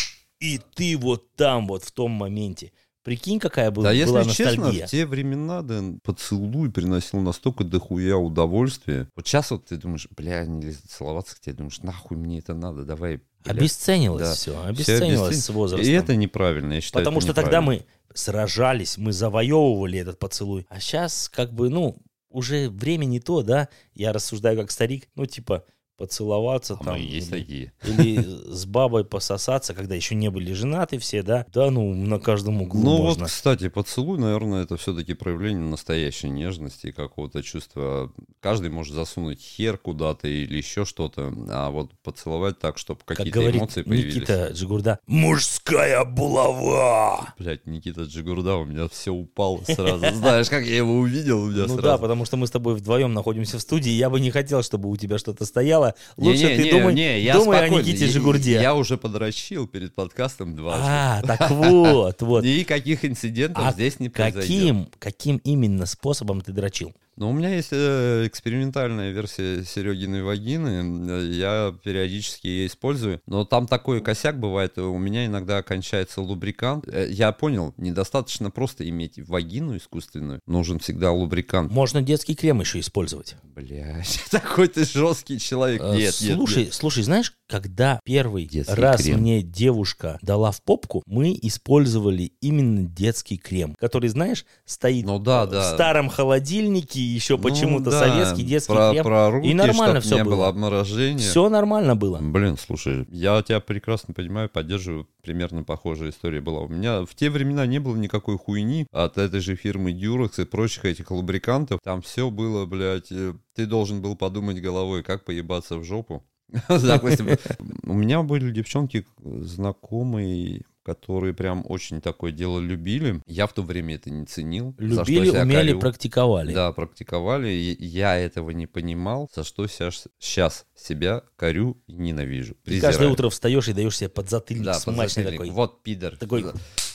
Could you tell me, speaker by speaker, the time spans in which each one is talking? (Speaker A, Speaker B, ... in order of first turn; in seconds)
Speaker A: 0.4-4.9, 13.4-16.1, 16.9-33.3, 43.2-47.3, 49.7-50.3, 51.5-58.7, 60.7-62.5, 63.5-66.9, 81.7-83.4, 85.8-100.5, 101.2-102.2, 124.8-126.6, 132.7-135.6, 136.2-136.5
Speaker B: 3.8-17.7, 26.8-28.2, 32.7-44.4, 47.4-52.0, 56.2-64.7, 67.2-81.7, 83.5-86.6, 88.5-89.3, 95.0-96.0, 97.4-101.4, 102.2-125.9, 126.5-133.2, 134.6-136.6